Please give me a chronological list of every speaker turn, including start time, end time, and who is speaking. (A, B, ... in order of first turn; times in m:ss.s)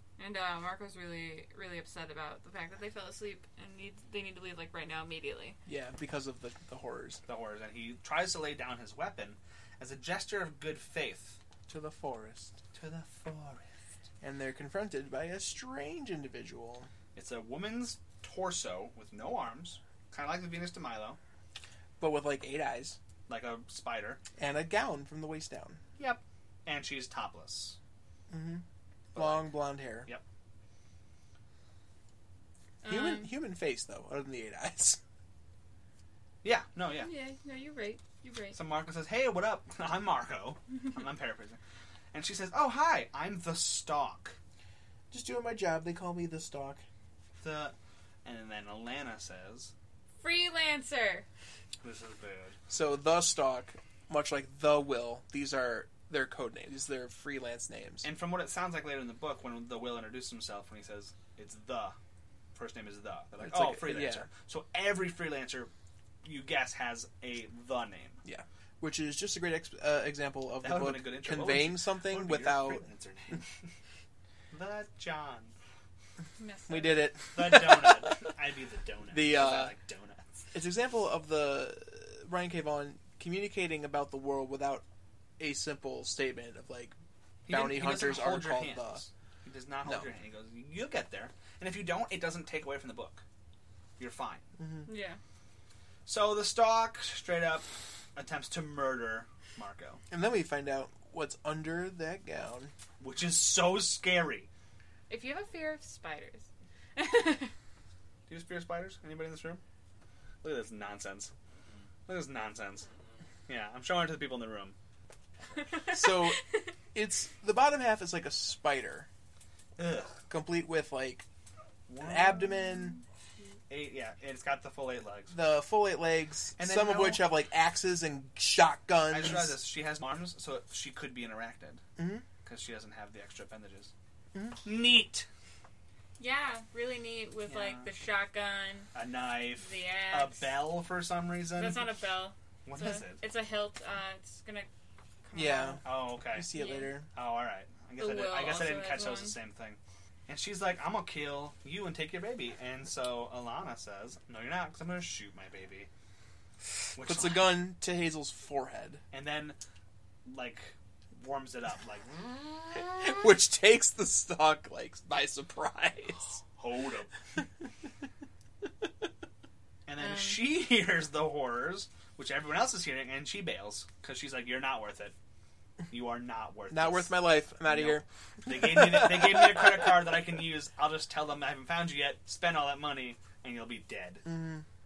0:00.2-0:05.6 A
0:05.7-0:07.2 B
0:07.3-0:11.4 C
0:11.7-0:12.6 B
0:12.7-0:13.7 C
0:14.2-0:16.9 B
0:17.2-0:21.2 C
0:22.0-0:23.0 B
0:23.3-0:24.2 C
0:24.4-0:25.8 B
0:26.0-0:27.8 C
0:28.3-0:28.6 B
0:29.2-0:29.5 C
0:29.2-0:30.1 B
0:32.8-0:33.4 A
0:32.8-0:35.0 B
0:36.4-0:37.1 C
0:37.0-0:38.6 A
0:38.5-0:41.6 C
0:42.1-0:44.4 C
0:45.1-0:46.8 B
0:47.4-0:49.7 C
0:50.2-0:51.3 A
0:51.8-0:52.6 C
0:52.7-0:58.1 B
0:58.0-1:02.0 C
1:02.6-1:05.7 C
1:03.4-1:04.3 B
1:06.2-1:08.2 C
1:08.2-1:12.9 B
1:10.6-1:13.7 C
1:14.5-1:15.6 C
1:16.4-1:17.1 A
1:16.7-1:18.1 B
1:17.3-1:20.5 C
1:19.1-1:19.8 B
1:20.5-1:24.8 B
1:25.4-1:27.0 B
1:27.5-1:33.2 C
1:27.5-1:29.0 B
1:34.0-1:34.5 C
1:34.6-1:34.9 B
1:34.9-1:35.2 A
1:36.1-1:40.0 C
1:40.1-1:42.7 B
1:43.0-1:44.5 C
1:45.1-1:47.5 A
1:48.3-1:49.6 C
1:50.4-1:51.3 C
1:52.1-1:52.9 C
1:53.5-1:54.8 C
1:55.6-1:56.6 A
1:55.9-1:56.4 B
1:56.9-1:59.1 B
1:59.8-2:00.2 C
2:00.3-2:01.3 B
2:01.9-2:02.7 C
2:02.0-2:03.0 B
2:03.7-2:05.4 C
2:05.3-2:09.6 B
2:06.6-2:07.3 C
2:09.1-2:11.8 C
2:12.0-2:12.2 B
2:12.4-2:13.9 C
2:14.3-2:14.6 B
2:14.6-2:15.3 C
2:16.2-2:18.9 A
2:17.5-2:17.9 C
2:18.9-2:21.9 C
2:19.6-2:20.6 A
2:21.6-2:24.7 A
2:22.7-2:23.2 C
2:25.2-2:25.8 A
2:25.3-2:27.1 B
2:25.8-2:26.5 C
2:26.5-2:27.0 A
2:27.1-2:35.9 C
2:28.0-2:29.4 A
2:37.0-2:37.5 C
2:37.0-2:39.0 B
2:39.1-2:39.6 C
2:40.3-2:42.7 C
2:42.9-2:46.4 B
2:46.6-2:47.1 C
2:49.9-2:55.2 C
2:50.0-2:50.4 A
2:55.9-3:04.3 C
2:56.7-2:59.6 B
3:04.3-3:04.6 B